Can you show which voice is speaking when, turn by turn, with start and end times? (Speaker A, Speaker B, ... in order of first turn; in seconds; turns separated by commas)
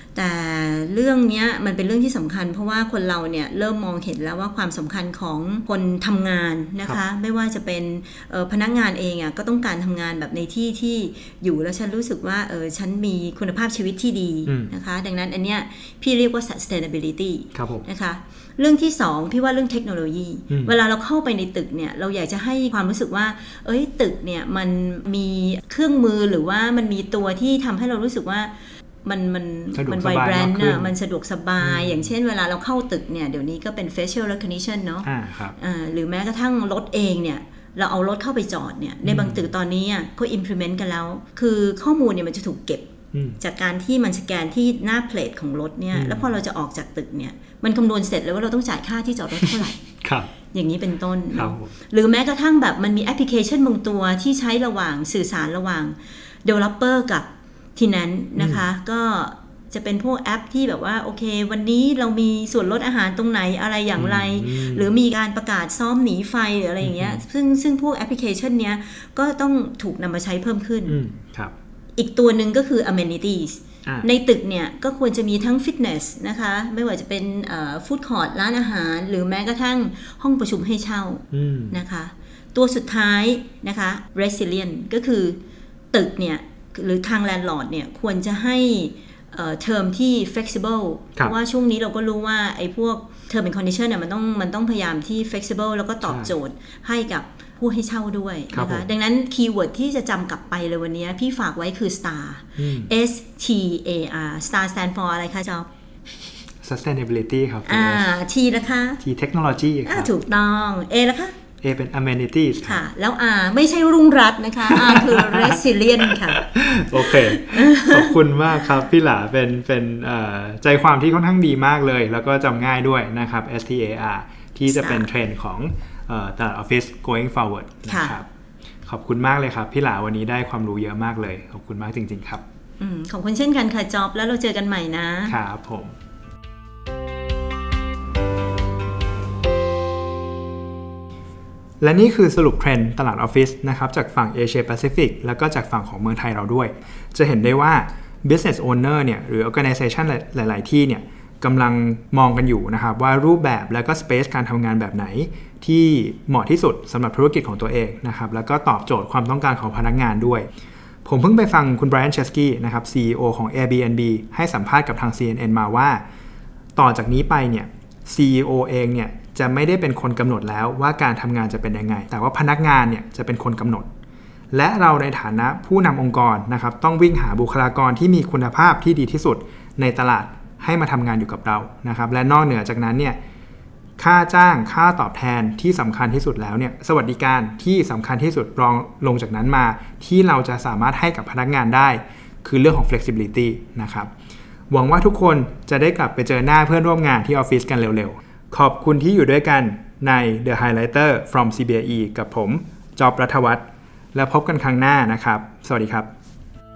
Speaker A: 0.1-28.5, Speaker B: 14.5-14.7, Speaker B: 17.6-17.9, Speaker B: 20.5-20.8, Speaker A: 29.0-49.8, Speaker B: 29.7-30.9, Speaker B: 31.6-32.1, Speaker B: 35.0-35.6, Speaker B: 39.0-39.5, Speaker B: 43.1-43.4, Speaker B: 45.9-46.3, Speaker B: 49.4-50.3, Speaker A: 50.5-71.0, Speaker B: 51.3-51.7, Speaker B: 58.4-58.7, Speaker B: 64.0-64.9, Speaker B: 66.8-67.2, Speaker B: 70.9-71.5, Speaker A: 72.0-85.4, Speaker B: 81.3-81.8, Speaker A: 85.9-105.7, Speaker B: 96.0-96.3, Speaker B: 98.5-98.9, Speaker B: 102.6-102.9, Speaker B: 106.6-108.0, Speaker A: 107.7-109.0, Speaker B: 109.0-110.1, Speaker A: 109.9-111.4, Speaker B: 111.6-112.9, Speaker A: 112.7-118.2, Speaker B: 114.7-128.3, Speaker A: 124.7-125.1, Speaker A: 127.9-128.2, Speaker B: 128.9-132.4, Speaker A: 132.8-135.4, Speaker B: 135.3-135.9, Speaker B: 141.8-160.5, Speaker B: 161.1-166.0, Speaker B: 166.8-173.9, Speaker B: 174.5-183.2, Speaker B: 184.0-194.1, Speaker B: 194.7-206.1